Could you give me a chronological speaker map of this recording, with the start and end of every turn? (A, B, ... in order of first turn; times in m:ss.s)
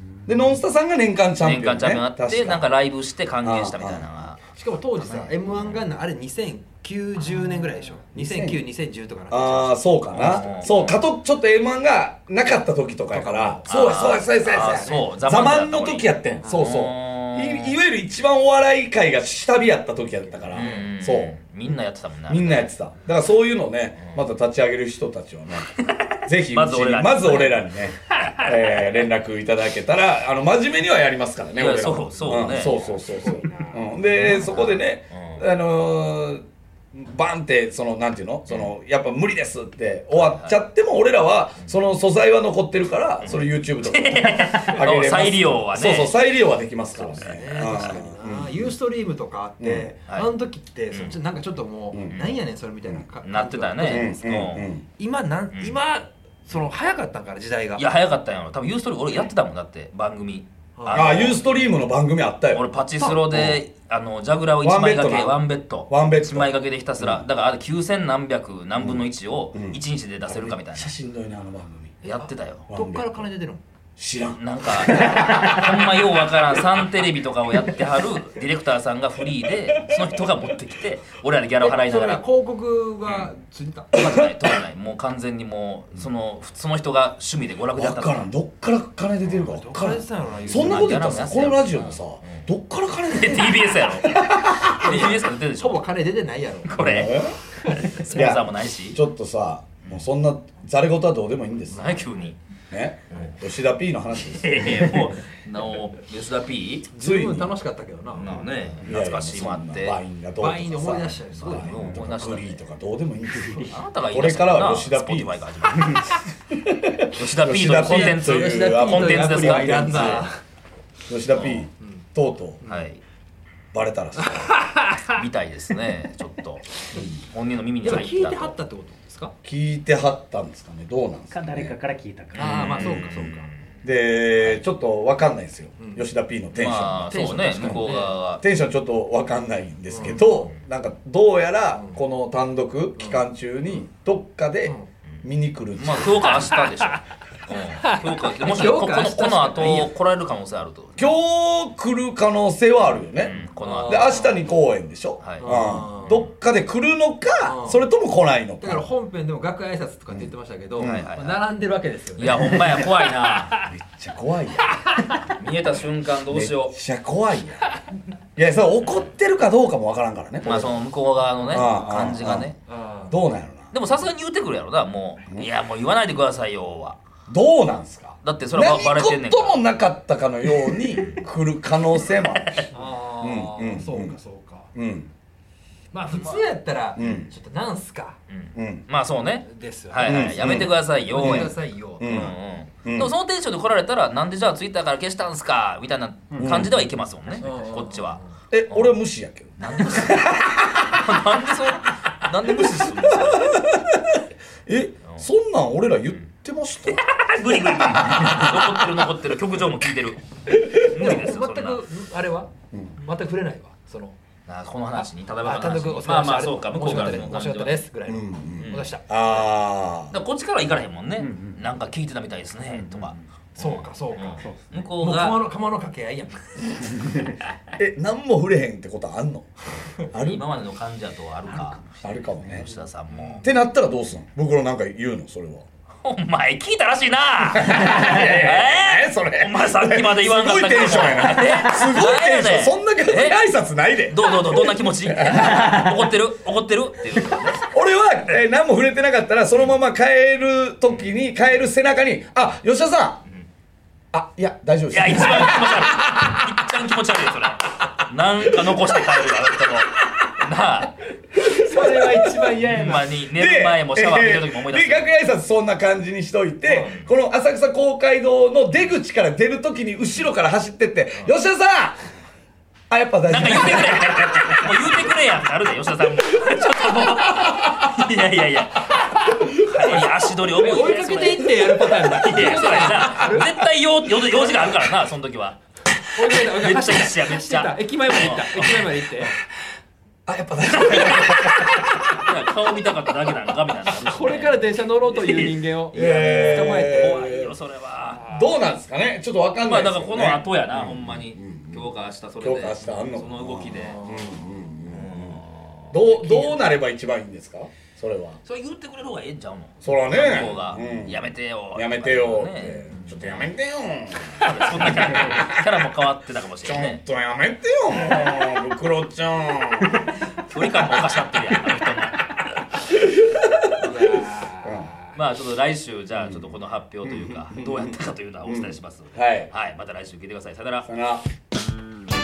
0:00.3-0:02.7 A
0:01.4-0:04.4 B
0:03.4-0:04.1 A
0:04.6-0:09.9 C
0:05.0-0:05.8 B
0:08.1-0:08.6 A
0:09.3-0:21.4 A
0:10.1-0:11.1 B
0:13.1-0:15.2 C
0:13.6-0:17.8 B
0:20.5-0:20.9 C
0:20.5-0:22.7 B
0:22.3-0:48.7 A
0:25.8-0:27.7 B
0:31.6-0:32.8 B
0:33.3-0:33.6 C
0:34.2-0:35.5 B
0:38.5-0:38.7 B
0:40.1-0:40.6 B
0:43.2-0:46.2 B
0:47.0-0:54.2 C
0:49.6-0:49.9 A
0:50.9-0:51.2 B
0:51.9-0:52.2 A
0:52.1-0:52.4 B
0:53.2-0:54.7 B
0:53.9-0:54.8 A
0:55.0-0:57.9 C
0:55.5-0:55.8 B
0:57.8-1:01.4 B
1:00.8-1:01.2 C
1:00.9-1:02.6 A
1:02.5-1:11.0 B
1:03.2-1:03.6 A
1:04.6-1:07.3 A
1:08.8-1:12.0 A
1:12.0-1:12.7 B
1:12.2-1:13.6 C
1:12.7-1:13.3 A
1:14.0-1:15.7 A
1:14.4-1:22.2 B
1:21.6-1:23.9 C
1:23.9-1:28.3 B
1:24.0-1:24.2 A
1:27.8-1:34.7 A
1:29.5-1:31.4 C
1:30.5-1:32.5 B
1:33.1-1:36.0 B
1:34.6-1:37.0 C
1:36.6-1:39.0 B
1:36.8-1:37.4 A
1:38.0-1:42.0 A
1:41.7-1:42.4 B
1:42.7-1:44.6 A
1:43.1-1:43.4 B
1:44.3-1:46.9 B
1:46.9-1:48.5 C
1:46.9-1:47.6 A
1:48.1-1:50.0 B
1:48.8-2:00.3 A
1:50.4-1:51.9 C
1:51.5-1:52.6 B
1:53.4-1:53.7 C
1:53.7-1:56.2 B
1:57.1-2:00.3 B
1:57.8-2:00.4 C
2:01.1-2:02.6 A
2:01.3-2:01.7 B
2:01.8-2:02.1 C
2:02.6-2:02.9 C
2:02.6-2:03.0 B
2:03.7-2:04.5 A
2:04.3-2:05.2 C
2:05.0-2:08.6 B
2:07.8-2:09.3 C
2:09.4-2:11.8 A
2:11.3-2:12.6 D
2:12.3-2:13.5 C
2:12.4-2:13.6 B
2:12.8-2:13.3 A
2:13.8-2:26.5 A
2:15.8-2:16.1 C
2:16.5-2:18.4 B
2:17.1-2:18.2 C
2:19.9-2:20.3 C
2:20.2-2:20.6 B
2:21.8-2:22.0 C
2:23.0-2:23.2 C
2:25.8-2:31.1 B
2:27.8-2:29.9 C
2:31.0-2:38.9 A
2:33.2-2:34.2 B
2:33.6-2:34.4 C
2:35.2-2:36.3 B
2:35.4-2:36.2 C
2:37.4-2:37.8 C
2:38.6-2:42.9 C
2:40.1-2:41.1 A
2:40.8-2:41.4 B
2:42.2-2:43.6 B
2:43.6-2:45.0 A
2:45.4-2:46.8 B
2:46.3-2:47.7 A
2:48.4-2:50.8 A
2:50.4-2:52.6 B
2:51.5-2:52.5 A
2:51.6-2:53.2 C
2:53.1-2:53.7 A
2:53.7-2:57.0 B
2:57.3-3:02.7 A
2:58.2-2:59.6 B
3:00.9-3:01.2 B
3:02.4-3:02.6 B
3:02.7-3:04.7 C
3:03.2-3:04.2 A
3:04.8-3:05.1 A
3:05.9-3:08.2 C
3:07.0-3:07.3 A
3:08.3-3:19.0 B
3:08.6-3:08.8 A
3:09.4-3:12.1 C
3:10.0-3:13.1 A
3:16.4-3:16.8 A
3:17.4-3:18.3 C
3:18.5-3:20.8 A
3:19.6-3:23.8 B
3:22.6-3:24.1 A
3:24.7-3:27.0 A
3:26.8-3:31.8 B
3:28.1-3:28.8 A
3:30.8-3:34.2 C
3:34.5-3:37.8 B
3:34.9-3:39.2 C
3:38.1-3:40.2 A
3:38.6-3:38.9 B
3:40.1-3:45.4 B
3:41.2-3:41.5 D
3:43.6-3:44.5 C
3:44.4-3:44.7 D
3:45.0-3:47.1 C
3:47.8-3:49.5 A
3:50.0-3:50.4 A
3:50.2-3:53.5 B
3:52.0-3:52.7 A
3:53.1-3:53.4 C
3:53.4-3:55.6 A
3:56.0-4:03.4 B
3:57.6-4:05.9 A
4:04.1-4:07.7 B
4:07.5-4:13.2 A
4:10.9-4:11.1 B
4:14.1-4:16.0 A
4:14.9-4:21.1 B
4:18.6-4:19.2 A
4:21.3-4:22.6 A
4:21.5-4:23.1 C
4:22.6-4:25.1 B
4:23.3-4:32.0 A
4:26.6-4:27.1 B
4:32.9-4:35.0 A
4:33.3-4:49.3 B
4:40.5-4:43.6 C
4:41.6-4:41.9 A
4:44.3-4:44.7 C
4:46.2-4:49.4 C
4:50.3-4:52.1 A
4:50.7-4:58.4 B
4:53.9-4:57.4 C
4:55.9-4:57.5 A
4:58.1-4:58.5 C
4:58.3-5:08.4 A
4:59.6-5:04.0 B
5:03.7-5:04.4 C
5:04.9-5:06.5 B
5:08.4-5:13.5 B
5:09.8-5:15.6 A
5:14.3-5:17.0 B
5:16.6-5:20.1 A
5:20.4-5:22.6 B
5:23.2-5:23.9 A
5:23.8-5:24.3 B
5:24.1-5:24.6 C
5:24.6-5:24.9 A
5:25.1-5:30.9 B
5:26.2-5:26.5 A
5:27.0-5:27.9 A
5:28.4-5:29.5 A
5:30.8-5:31.2 A